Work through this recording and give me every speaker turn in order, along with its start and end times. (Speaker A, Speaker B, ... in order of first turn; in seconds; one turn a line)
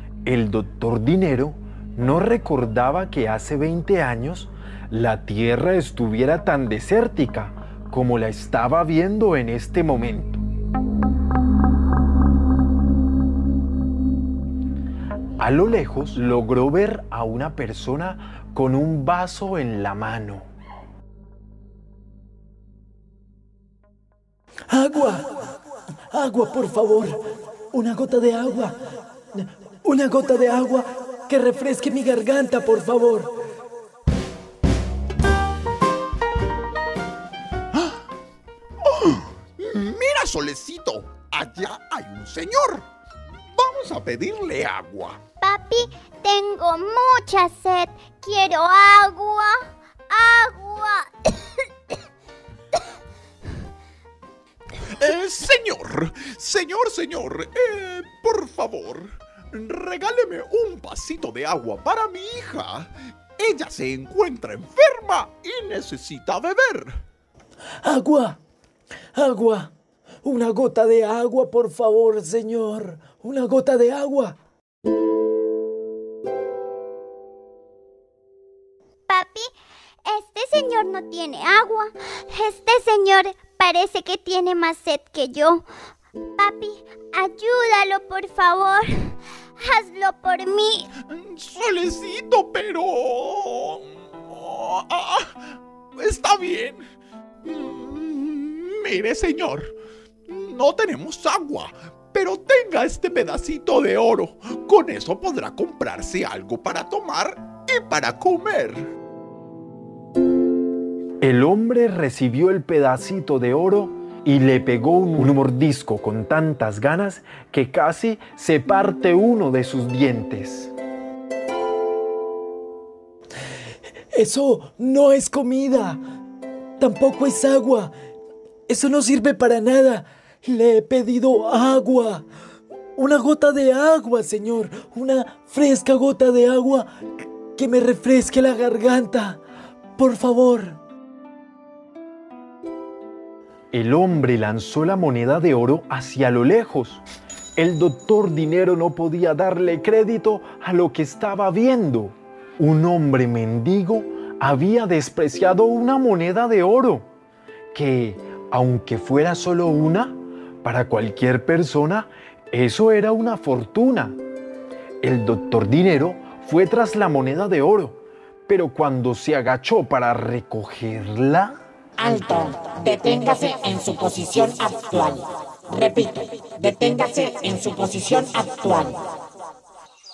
Speaker A: 0.2-10.4
Speaker A: 15.4-20.4
Speaker B: 24.7-25.2
Speaker B: 26.1-27.2
Speaker B: 27.7-28.7
Speaker B: 29.3-33.3
Speaker C: 38.8-42.9
Speaker C: 43.5-45.2
Speaker D: 45.4-51.3
Speaker C: 54.8-67.0
Speaker B: 67.8-68.4
Speaker B: 69.2-69.7
Speaker B: 70.2-74.4
Speaker D: 79.1-79.5
Speaker D: 80.1-85.7
Speaker D: 86.4-90.9
Speaker C: 91.1-96.9
Speaker C: 97.4-99.8
Speaker C: 100.3-108.9
Speaker A: 111.2-120.7
Speaker B: 124.1-126.0
Speaker B: 126.8-127.9
Speaker B: 128.7-132.3
Speaker B: 133.0-136.9
Speaker B: 137.6-139.4
Speaker B: 140.0-140.8
Speaker A: 143.7-147.0
Speaker A: 147.6-157.1
Speaker A: 157.7-164.2
Speaker A: 165.0-171.6
Speaker E: 172.0-179.0